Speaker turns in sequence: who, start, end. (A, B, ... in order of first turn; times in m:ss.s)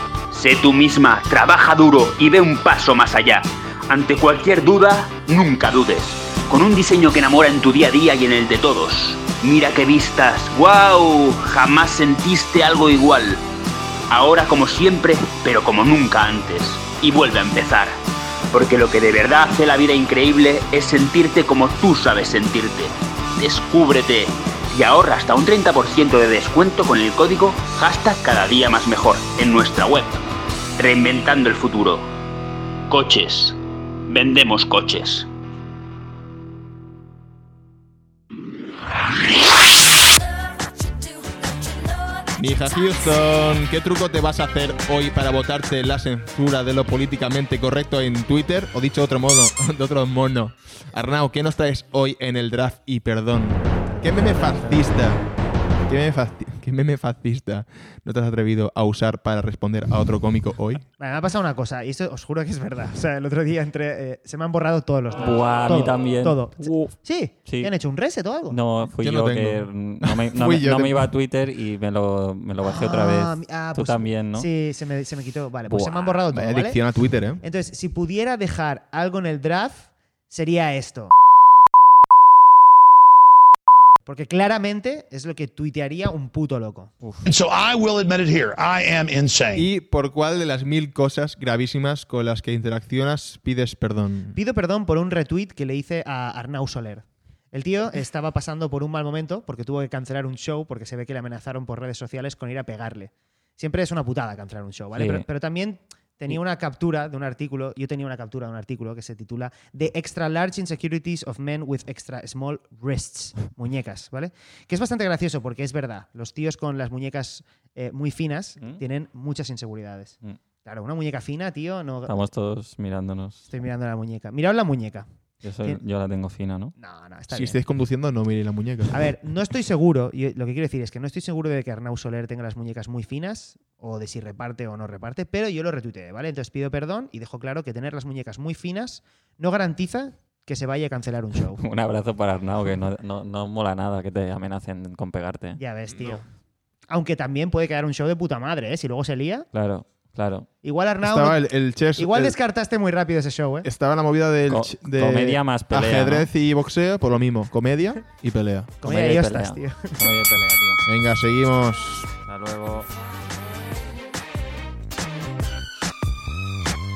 0:00.3-0:13.4 A
0:14.1-0:18.0 A
0:18.5-0:30.2 A
0:30.8-0:32.1 A
0:32.9-0:35.3 A
0:42.4-0:55.2 B
0:54.0-0:54.8 C
0:55.9-1:00.8 B
1:01.0-1:08.6 C
1:05.2-1:07.7 D
1:08.5-1:14.5 D
1:09.0-1:11.1 B
1:12.6-1:16.8 C
1:15.7-1:16.1 D
1:16.3-1:17.4 B
1:17.4-1:21.1 C
1:24.0-1:26.9 C
1:27.2-1:29.7 E
1:29.5-1:34.4 B
1:34.3-2:02.3 C
1:44.9-1:45.2 D
2:02.0-2:03.5 D
2:03.5-2:05.1 C
2:05.4-2:06.7 D
2:06.8-2:07.6 C
2:07.3-2:09.0 B
2:08.9-2:21.6 C
2:21.6-2:25.6 D
2:25.6-2:26.2 C
2:26.9-2:29.5 C
2:29.5-2:30.5 D
2:30.6-2:33.7 C
2:31.0-2:32.3 B
2:33.6-2:38.7 B
2:34.5-2:36.3 D
2:38.8-2:40.1 C
2:38.8-2:40.8 D
2:40.8-2:42.1 B
2:42.3-2:42.9 D